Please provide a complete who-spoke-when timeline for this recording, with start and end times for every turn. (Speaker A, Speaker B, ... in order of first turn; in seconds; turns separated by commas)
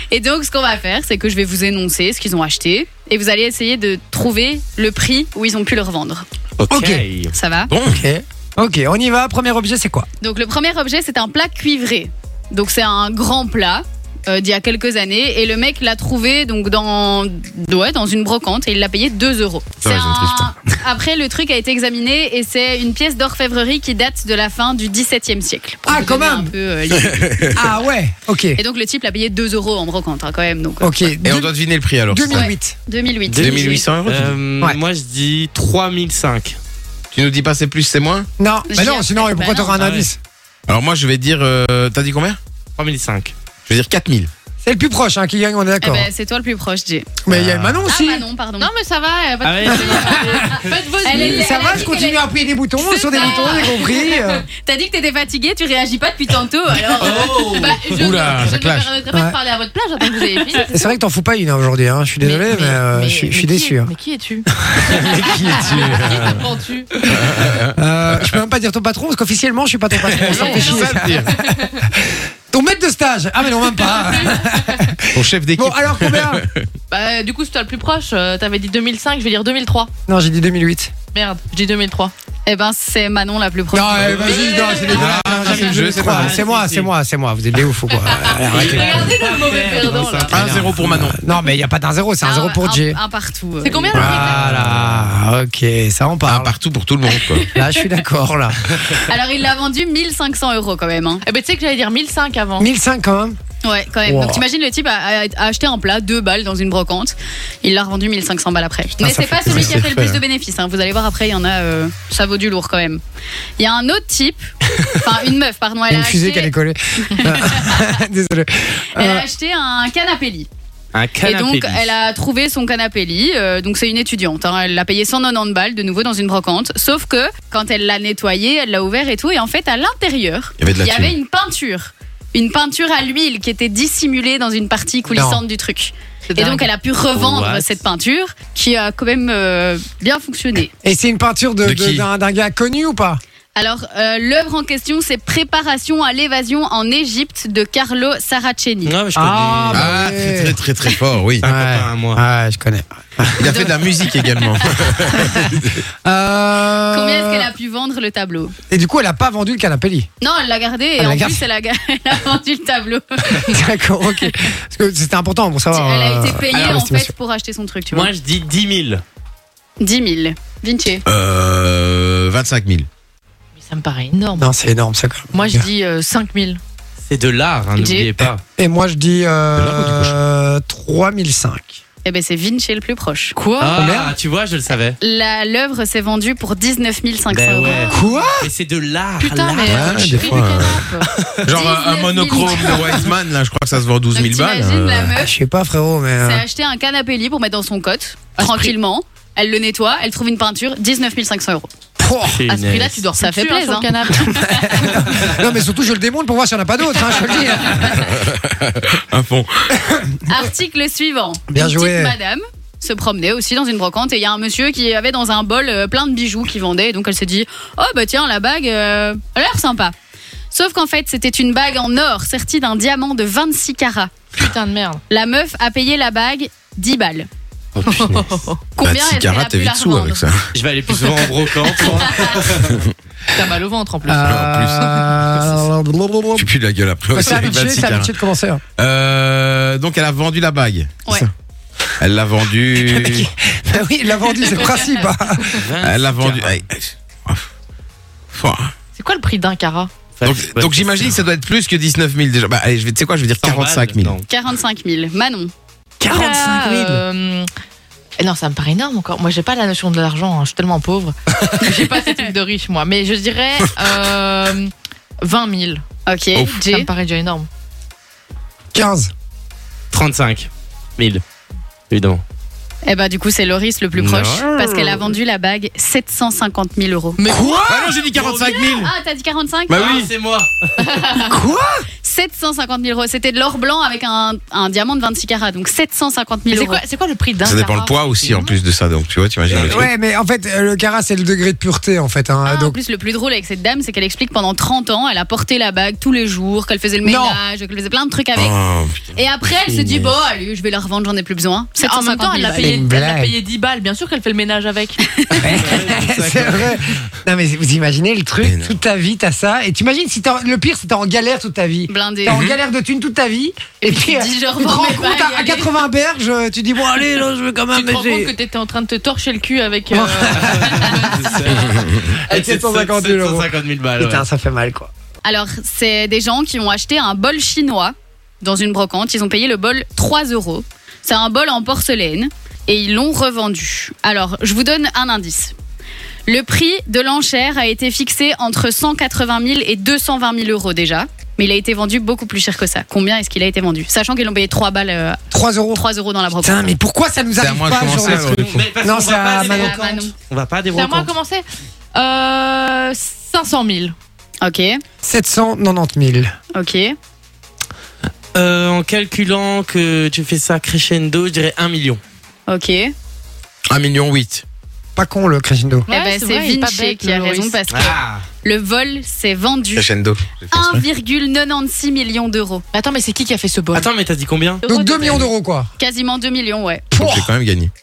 Speaker A: 0.1-6.2, Speaker B: 6.6-7.3, Speaker C: 6.7-7.0, Speaker A: 7.3-7.7, Speaker D: 7.7-8.0, Speaker C: 7.9-10.1, Speaker A: 10.2-27.6, Speaker D: 19.8-20.5, Speaker C: 25.9-26.5, Speaker D: 26.9-27.6, Speaker C: 27.5-28.6, Speaker A: 28.6-31.1, Speaker C: 30.8-31.5, Speaker D: 31.2-32.5, Speaker C: 32.1-32.8, Speaker A: 32.3-33.8, Speaker B: 33.3-36.6, Speaker D: 33.4-34.4, Speaker D: 37.1-38.3, Speaker C: 38.4-40.2, Speaker A: 38.7-39.8, Speaker B: 39.7-40.1, Speaker D: 40.7-42.4, Speaker B: 42.8-43.3, Speaker D: 43.7-44.3, Speaker C: 44.6-46.1, Speaker A: 45.8-47.1, Speaker C: 47.3-48.2, Speaker D: 47.3-47.9, Speaker A: 47.9-48.7, Speaker E: 48.6-51.9, Speaker B: 49.4-50.9, Speaker C: 49.8-54.5, Speaker A: 49.8-57.5, Speaker B: 56.9-57.8, Speaker E: 57.0-61.0, Speaker D: 57.9-58.9, Speaker C: 59.1-59.4, Speaker A: 60.4-60.7, Speaker C: 60.7-63.9, Speaker E: 62.2-64.5, Speaker C: 64.6-66.0, Speaker D: 64.9-66.4, Speaker E: 65.0-67.0, Speaker C: 67.1-76.5, Speaker D: 67.1-68.4, Speaker D: 70.0-71.3, Speaker E: 70.2-71.8, Speaker D: 75.1-76.7, Speaker E: 76.9-79.9, Speaker C: 80.1-80.9, Speaker E: 81.1-82.1, Speaker A: 82.5-84.2, Speaker C: 83.7-89.1, Speaker B: 84.0-86.9, Speaker E: 84.2-86.0, Speaker D: 84.9-86.4, Speaker E: 87.9-90.5, Speaker B: 88.4-90.9, Speaker D: 90.3-91.2, Speaker C: 90.3-93.0, Speaker A: 92.2-94.1, Speaker E: 93.6-94.5, Speaker C: 93.9-96.5, Speaker D: 94.0-95.1, Speaker B: 94.4-94.8, Speaker D: 96.2-97.5, Speaker A: 97.1-97.9, Speaker C: 97.5-99.0, Speaker A: 99.0-101.2, Speaker E: 101.2-102.7, Speaker C: 102.6-103.4, Speaker A: 103.6-113.0, Speaker C: 104.1-104.4, Speaker C: 109.0-109.8, Speaker D: 109.5-110.2, Speaker A: 113.6-114.5, Speaker A: 115.0-116.5, Speaker C: 115.9-119.2, Speaker A: 117.1-118.0, Speaker A: 119.0-120.5, Speaker B: 120.9-121.9, Speaker A: 121.2-140.7, Speaker D: 130.6-131.2, Speaker C: 135.1-135.4, Speaker E: 136.3-136.7, Speaker B: 137.1-137.8, Speaker C: 140.8-143.2, Speaker D: 141.6-142.1, Speaker A: 143.6-148.9, Speaker B: 148.8-150.0, Speaker C: 149.2-150.6, Speaker D: 149.7-151.5, Speaker B: 151.4-152.2, Speaker C: 151.4-153.5, Speaker D: 153.4-155.8, Speaker A: 153.4-154.7, Speaker C: 155.1-155.5, Speaker C: 156.0-157.5, Speaker A: 156.9-158.6, Speaker C: 158.7-160.1, Speaker A: 160.2-163.6, Speaker C: 161.0-161.4, Speaker C: 163.3-167.1, Speaker A: 165.7-168.1, Speaker B: 167.9-169.0, Speaker A: 169.8-171.0, Speaker D: 171.1-172.9, Speaker E: 173.6-174.5, Speaker C: 174.4-175.7, Speaker E: 175.3-176.6, Speaker B: 177.1-178.4, Speaker A: 177.8-178.1, Speaker C: 178.6-181.8, Speaker D: 179.6-180.2, Speaker A: 182.1-183.4, Speaker E: 183.3-183.8, Speaker B: 183.6-185.0, Speaker C: 183.8-184.2, Speaker A: 185.0-188.1, Speaker B: 187.3-190.3, Speaker C: 187.9-188.5, Speaker E: 189.2-190.9, Speaker A: 189.6-193.1, Speaker D: 189.7-190.9, Speaker C: 189.9-190.2, Speaker D: 191.5-195.2, Speaker A: 194.1-195.3, Speaker C: 195.2-196.4, Speaker A: 196.2-201.7, Speaker E: 198.4-198.7, Speaker C: 202.0-202.4, Speaker B: 202.3-203.0, Speaker E: 202.5-204.9, Speaker A: 202.8-204.9, Speaker C: 204.2-208.1, Speaker D: 208.0-209.7, Speaker C: 209.8-210.2, Speaker A: 210.3-219.9, Speaker C: 211.5-212.1, Speaker A: 220.5-224.3, Speaker E: 224.3-225.0, Speaker A: 225.1-227.3, Speaker B: 227.8-228.4, Speaker E: 227.8-228.6, Speaker A: 228.8-230.3, Speaker D: 228.8-230.5, Speaker B: 230.5-232.8, Speaker A: 231.7-232.5, Speaker D: 232.6-232.9, Speaker E: 233.3-234.3, Speaker C: 234.1-236.5, Speaker D: 234.2-234.9, Speaker D: 236.4-238.2, Speaker C: 237.1-238.6, Speaker D: 238.8-241.3, Speaker D: 242.0-243.3, Speaker C: 242.8-245.7, Speaker A: 244.5-245.0, Speaker B: 245.5-246.6, Speaker D: 245.8-247.5, Speaker D: 248.3-248.7, Speaker E: 248.9-249.9, Speaker B: 250.2-251.2, Speaker D: 250.2-254.2, Speaker B: 253.4-254.3, Speaker A: 254.3-255.5, Speaker C: 256.0-257.0, Speaker E: 256.0-257.5, Speaker E: 258.2-264.7, Speaker A: 261.6-262.3, Speaker E: 265.2-265.9, Speaker A: 266.1-266.9, Speaker E: 266.5-267.5, Speaker C: 268.7-269.1, Speaker B: 269.9-271.2, Speaker B: 271.9-272.2, Speaker A: 272.9-277.2, Speaker B: 273.9-274.6, Speaker E: 277.2-278.0, Speaker C: 277.3-278.0, Speaker D: 277.7-278.9, Speaker B: 278.1-278.6, Speaker A: 278.3-279.9, Speaker D: 279.7-280.1, Speaker B: 279.7-280.9, Speaker A: 280.9-281.4, Speaker C: 281.3-281.9, Speaker A: 282.0-286.8, Speaker E: 286.5-288.5, Speaker D: 287.4-289.9, Speaker B: 289.5-289.9, Speaker C: 289.7-292.8, Speaker A: 292.4-298.6, Speaker C: 297.0-297.4, Speaker D: 298.4-299.2, Speaker A: 299.1-302.8, Speaker E: 301.8-305.0, Speaker C: 302.6-303.3, Speaker A: 305.1-305.5, Speaker C: 305.4-318.3, Speaker B: 305.4-306.8, Speaker D: 308.4-308.8, Speaker A: 311.9-312.5, Speaker A: 313.8-315.8, Speaker E: 317.7-321.3, Speaker C: 319.9-321.4, Speaker B: 320.4-324.3, Speaker C: 322.3-324.9, Speaker A: 325.2-335.5, Speaker A: 336.3-346.8, Speaker C: 345.3-345.8, Speaker C: 346.4-349.8, Speaker D: 347.4-348.7, Speaker B: 347.9-351.1, Speaker A: 349.4-350.1, Speaker E: 350.7-353.9, Speaker A: 354.4-354.8, Speaker C: 355.0-356.3, Speaker A: 356.5-356.9, Speaker B: 358.3-362.0, Speaker A: 362.5-362.9, Speaker D: 363.7-364.4, Speaker C: 365.0-365.9, Speaker E: 365.9-367.6, Speaker A: 365.9-369.9, Speaker B: 367.7-368.3, Speaker D: 369.8-370.9, Speaker A: 370.5-372.6, Speaker E: 372.7-373.9, Speaker B: 373.7-374.6, Speaker E: 374.6-375.3, Speaker C: 374.7-375.7, Speaker A: 375.8-376.9, Speaker C: 376.9-377.3, Speaker D: 376.9-377.7